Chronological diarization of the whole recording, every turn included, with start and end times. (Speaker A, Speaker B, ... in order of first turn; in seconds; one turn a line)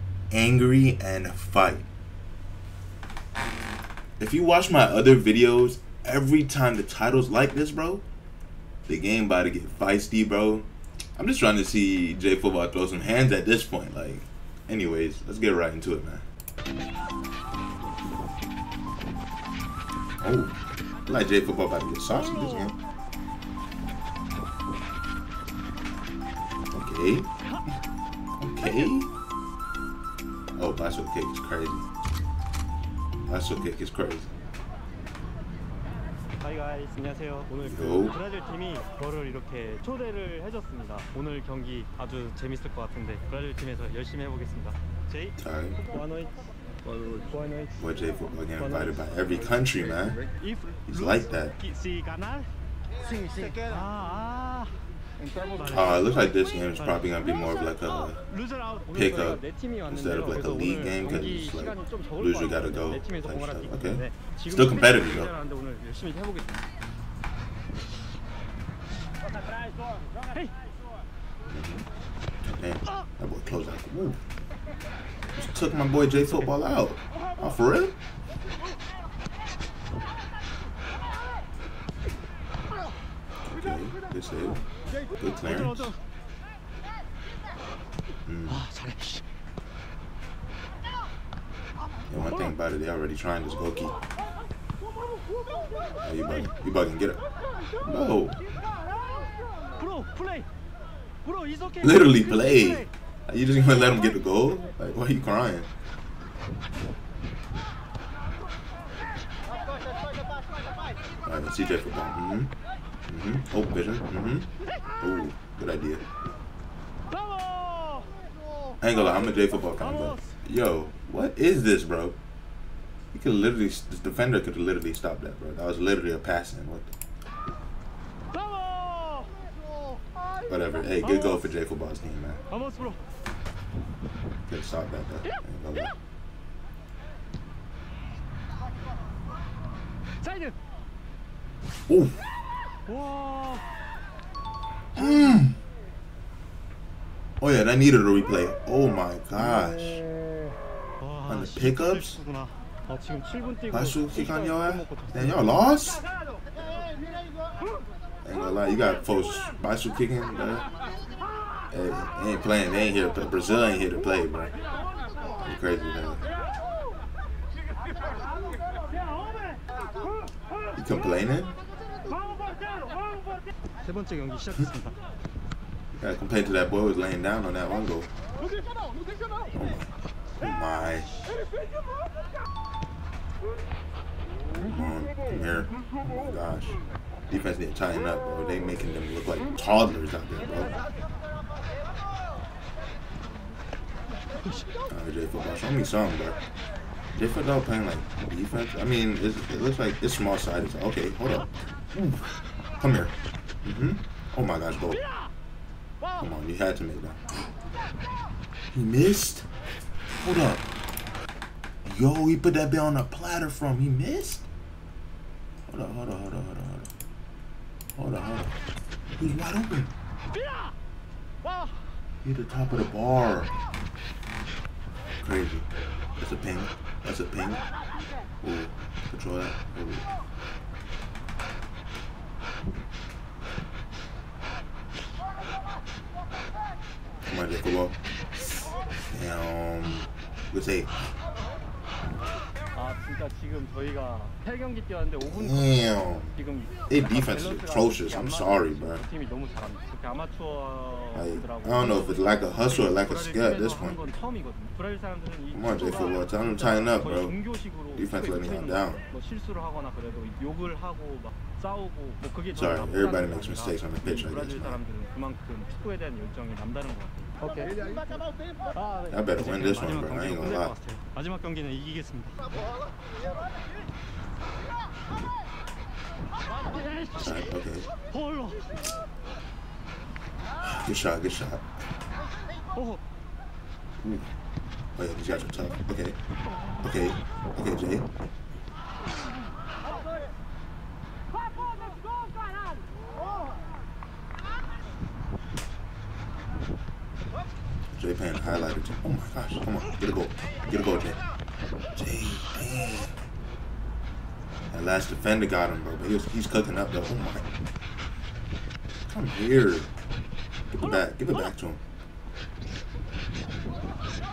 Speaker A: 0.3-1.9
Speaker A: 4.2-8.0
Speaker A: 8.9-16.2
Speaker A: 20.2-22.8
Speaker A: 26.7-27.3
Speaker A: 28.4-29.1
Speaker A: 30.5-31.9
Speaker A: 33.3-34.3
Speaker B: 36.4-45.0
Speaker A: 37.6-38.2
Speaker A: 45.4-45.8
Speaker B: 45.9-46.3
Speaker B: 47.2-47.7
Speaker A: 47.8-50.2
Speaker A: 50.9-51.6
Speaker B: 51.6-52.5
Speaker B: 53.5-54.7
Speaker A: 55.6-58.2
Speaker A: 58.9-65.3
Speaker B: 65.3-66.6
Speaker A: 71.5-71.9
Speaker A: 72.4-74.2
Speaker A: 75.4-78.0
Speaker A: 83.5-84.7
Speaker A: 85.2-86.0
Speaker A: 88.3-88.7
Speaker B: 88.7-89.2
Speaker A: 92.1-94.0
Speaker A: 96.0-97.2
Speaker A: 97.8-98.4
Speaker B: 99.8-100.4
Speaker A: 101.8-105.7
Speaker A: 111.2-112.5
Speaker A: 113.1-116.0
Speaker A: 118.8-122.2
Speaker A: 123.1-126.9
Speaker A: 130.5-132.4
Speaker A: 134.5-135.9
Speaker A: 141.9-142.2
Speaker A: 144.9-145.6
Speaker A: 147.4-150.0
Speaker A: 151.2-152.2
Speaker A: 153.7-156.1
Speaker A: 158.2-160.7
Speaker A: 161.7-164.5
Speaker A: 165.4-166.2
Speaker A: 170.8-171.6
Speaker B: 173.8-174.9
Speaker A: 175.9-178.1
Speaker A: 179.5-181.2
Speaker A: 184.6-186.8
Speaker A: 187.3-190.8
Speaker A: 194.9-196.4
Speaker A: 197.2-205.0
Speaker A: 206.1-207.2
Speaker A: 208.7-209.5
Speaker A: 210.2-210.7
Speaker A: 211.8-214.5
Speaker A: 215.7-216.9
Speaker A: 217.9-218.6
Speaker A: 219.2-219.9
Speaker A: 222.2-223.5
Speaker A: 225.2-227.6
Speaker A: 228.4-230.1
Speaker A: 237.3-238.0
Speaker A: 239.1-240.9
Speaker B: 242.9-245.0
Speaker A: 245.2-246.3
Speaker A: 246.9-249.0
Speaker B: 249.3-251.0
Speaker A: 251.2-254.1
Speaker B: 254.1-255.3
Speaker A: 255.5-257.4
Speaker A: 257.9-259.0
Speaker B: 259.3-262.3
Speaker A: 262.5-264.8
Speaker B: 264.8-267.9
Speaker A: 269.1-270.8
Speaker B: 270.8-272.4
Speaker A: 277.1-277.9
Speaker B: 278.2-278.6
Speaker A: 280.6-281.7
Speaker A: 284.0-284.3
Speaker A: 284.9-286.2
Speaker A: 286.8-288.1
Speaker A: 297.9-301.2
Speaker A: 301.9-303.1
Speaker A: 304.7-307.5
Speaker A: 309.1-309.9
Speaker A: 310.7-311.8